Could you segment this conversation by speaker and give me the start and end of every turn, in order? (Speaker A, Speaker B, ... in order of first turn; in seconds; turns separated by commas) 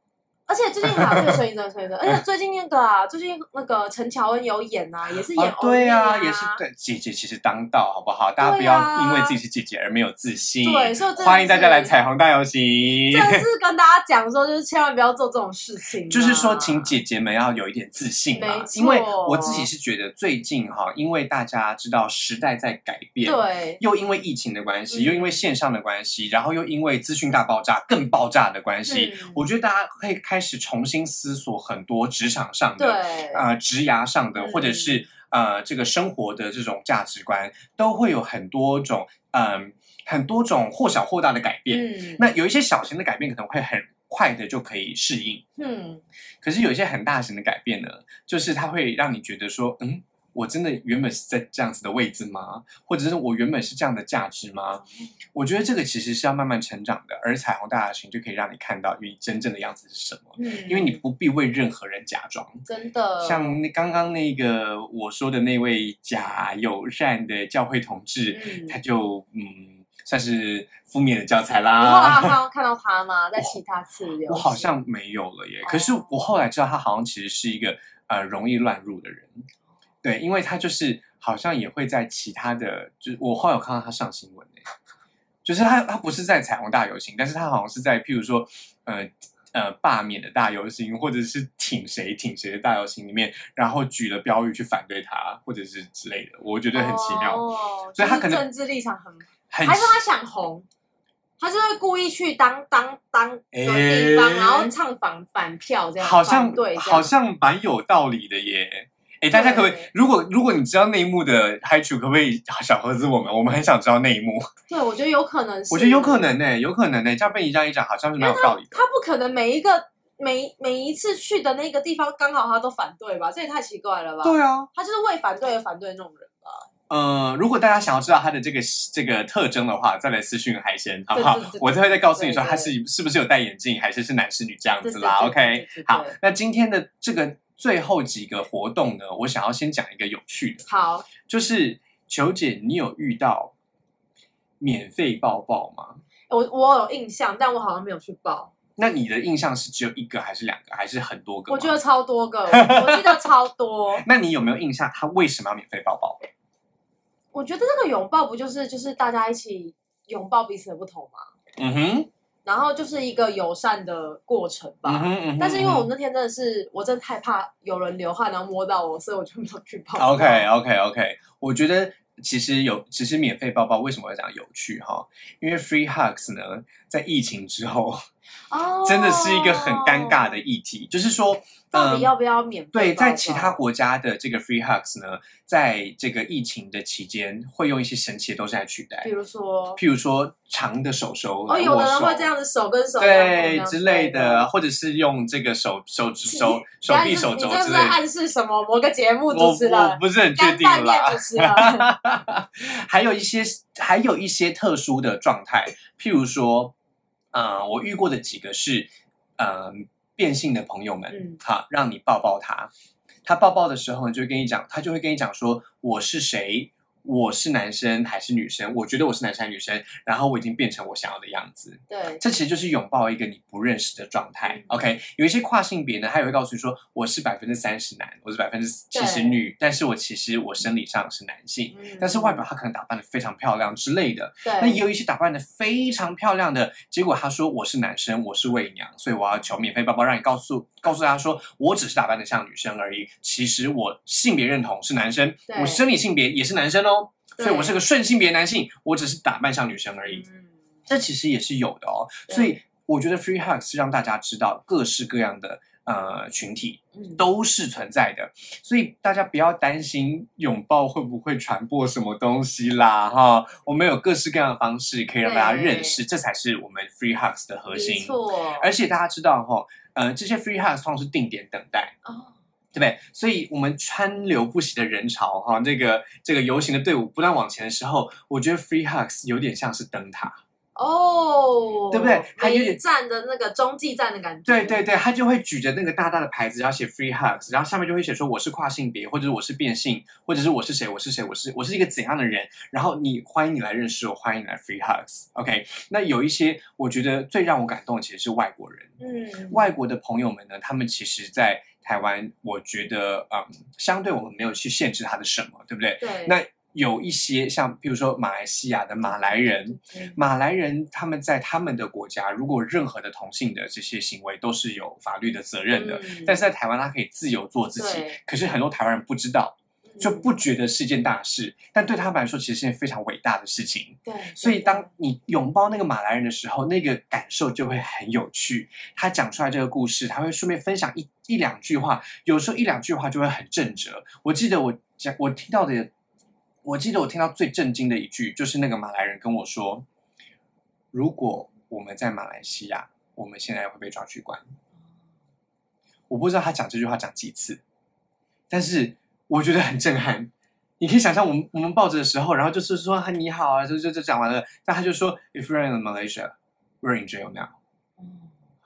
Speaker A: 0.5-6.6, Speaker B: 0.8-1.4, Speaker B: 5.3-13.4, Speaker A: 8.4-9.4, Speaker A: 10.6-11.9, Speaker A: 13.1-17.0, Speaker B: 16.1-45.4, Speaker A: 18.4-19.7, Speaker A: 23.2-23.8, Speaker A: 24.9-25.4, Speaker A: 28.9-29.4, Speaker A: 32.8-33.5, Speaker A: 34.4-35.0, Speaker A: 41.7-42.2, Speaker A: 45.6-46.0, Speaker B: 46.4-54.8, Speaker B: 55.3-62.6, Speaker A: 60.4-61.0, Speaker A: 62.7-63.6, Speaker B: 63.2-72.4, Speaker A: 68.3-68.8, Speaker A: 71.8-74.7, Speaker B: 74.3-79.5, Speaker A: 75.6-76.2, Speaker B: 80.0-84.6, Speaker B: 85.5-97.4, Speaker A: 96.7-100.7, Speaker B: 98.0-98.4, Speaker B: 99.5-100.0, Speaker A: 101.4-107.1, Speaker B: 103.5-104.7, Speaker B: 106.0-114.5, Speaker A: 109.3-109.9, Speaker A: 114.7-116.3, Speaker B: 115.7-118.8, Speaker A: 118.2-126.7, Speaker B: 124.2-124.7, Speaker B: 126.9-140.7, Speaker A: 131.1-132.7, Speaker A: 134.8-136.2, Speaker A: 140.7-141.1, Speaker B: 141.2-143.5, Speaker B: 144.6-146.0, Speaker A: 146.3-148.5, Speaker B: 148.8-151.8, Speaker A: 151.5-154.1, Speaker B: 152.5-153.2, Speaker B: 154.0-156.2, Speaker A: 157.3-161.3, Speaker B: 161.6-162.1, Speaker A: 162.4-170.5, Speaker B: 164.9-165.9, Speaker B: 170.0-178.0, Speaker A: 178.5-180.4, Speaker B: 178.8-182.1, Speaker A: 181.7-183.6, Speaker B: 182.7-189.1, Speaker A: 189.0-189.8, Speaker B: 189.8-192.3, Speaker A: 191.5-194.5, Speaker B: 193.0-198.0, Speaker A: 196.3-201.9, Speaker B: 199.3-206.7, Speaker B: 207.3-212.7, Speaker A: 211.1-211.4, Speaker B: 213.2-250.2, Speaker A: 221.9-222.2, Speaker A: 224.4-224.7, Speaker A: 228.9-229.4, Speaker A: 231.7-232.4, Speaker A: 234.4-234.8, Speaker A: 245.5-245.8, Speaker A: 247.4-247.8, Speaker A: 250.1-250.4, Speaker B: 250.9-271.9, Speaker A: 252.3-252.6, Speaker A: 256.9-257.2, Speaker A: 265.2-266.0, Speaker A: 267.7-268.7, Speaker A: 272.1-272.3, Speaker B: 272.7-280.4, Speaker A: 280.8-284.8, Speaker B: 281.9-282.8, Speaker B: 284.5-298.9, Speaker A: 299.0-299.7, Speaker B: 299.5-335.9, Speaker A: 306.0-306.4, Speaker A: 309.1-310.2, Speaker A: 315.7-316.4, Speaker A: 317.8-318.2, Speaker A: 319.9-320.3, Speaker A: 324.1-324.9, Speaker B: 336.6-339.9, Speaker B: 340.9-344.5, Speaker B: 346.1-347.6, Speaker B: 348.5-357.6, Speaker A: 358.0-358.3